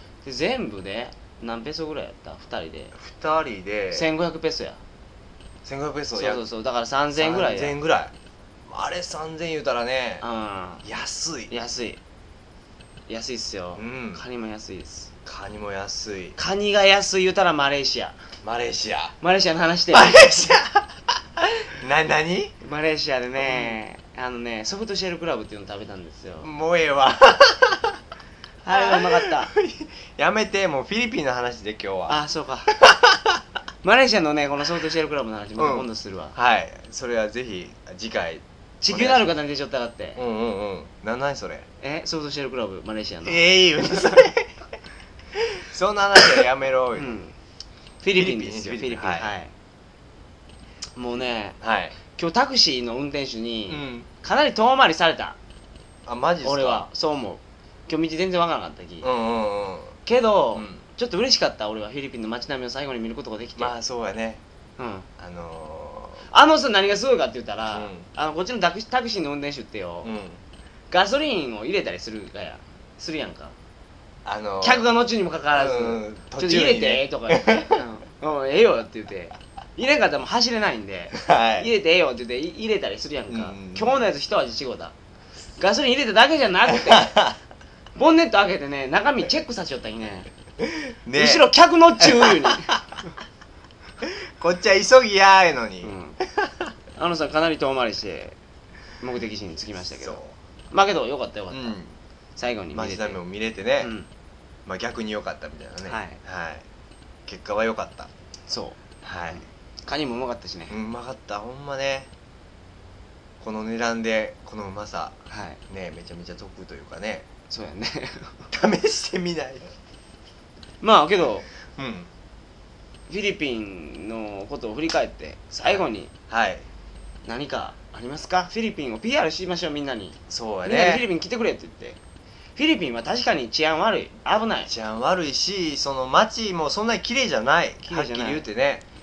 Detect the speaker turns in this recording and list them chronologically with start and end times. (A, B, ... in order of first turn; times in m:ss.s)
0:00.2-0:02.9 A
0:02.9-0:04.1 B
0:03.9-0:04.8 A
0:05.6-0:06.4 B
0:06.1-0:07.8 A
0:07.1-0:08.1 B
0:08.6-0:10.2 B
0:10.2-0:10.8 A
0:10.8-0:11.5 B
0:11.5-0:12.0 A
0:13.1-0:15.1 A
0:13.8-0:14.2 B
0:15.2-0:16.4 B
0:16.4-0:18.2 A
0:18.4-0:19.1 B
0:19.2-0:20.4 A
0:19.9-0:20.9 B
0:21.4-0:22.5 B
0:22.6-0:26.5 A
0:23.4-0:23.8 B
0:26.4-0:28.0 B
0:28.6-0:29.5 A
0:28.7-0:32.2 B
0:32.1-0:32.7 A
0:32.7-0:33.4 B
0:33.8-0:36.3 A
0:35.6-0:39.3 B
0:38.8-0:40.2 A
0:40.2-0:41.6 B
0:41.8-0:44.2 A
0:43.2-0:44.5 B
0:45.3-0:47.2 B
0:46.9-0:47.3 A
0:48.0-0:49.5 A
0:48.1-0:49.3 B
0:51.0-0:55.4 A
0:51.6-0:52.0 B
0:53.7-0:54.1 B
0:56.0-0:56.9 B
0:56.4-0:59.1 A
0:59.0-1:00.0 B
1:00.0-1:03.7 A
1:00.5-1:00.8 B
1:03.6-1:04.4 B
1:04.8-1:05.1 A
1:05.2-1:06.3 B
1:06.3-1:10.1 A
1:07.7-1:08.1 B
1:10.0-1:10.4 B
1:10.9-1:13.5 A
1:14.2-1:14.9 B
1:14.6-1:24.9 A
1:15.5-1:17.8 B
1:21.1-1:21.7 B
1:23.3-1:24.0 B
1:25.6-1:27.3 A
1:26.7-1:27.4 B
1:27.9-1:30.3 A
1:30.6-1:32.8 B
1:31.2-1:33.0 A
1:34.0-1:36.6 B
1:35.8-1:36.2 A
1:37.0-1:38.4 A
1:39.0-1:40.2 A
1:40.0-1:40.4 B
1:40.7-1:41.7 A
1:41.5-1:42.0 B
1:42.4-1:43.2 A
1:42.7-1:43.9 B
1:43.8-1:44.1 A
1:44.6-1:46.6 B
1:45.8-1:46.2 A
1:47.2-1:48.1 B
1:48.5-1:48.8 A
1:49.0-1:49.4 B
1:49.3-1:50.7 A
1:50.7-1:52.1 B
1:53.4-1:55.2 B
1:55.3-1:55.6 A
1:55.7-1:57.2 B
1:57.5-1:58.4 A
1:58.5-1:59.7 B
2:00.8-2:01.4 A
2:01.7-2:02.1 B
2:03.1-2:06.1 A
2:05.6-2:06.6 B
2:07.2-2:12.0 A
2:10.3-2:11.1 B
2:12.6-2:14.7 A
2:14.7-2:18.8 B
2:17.8-2:18.4 A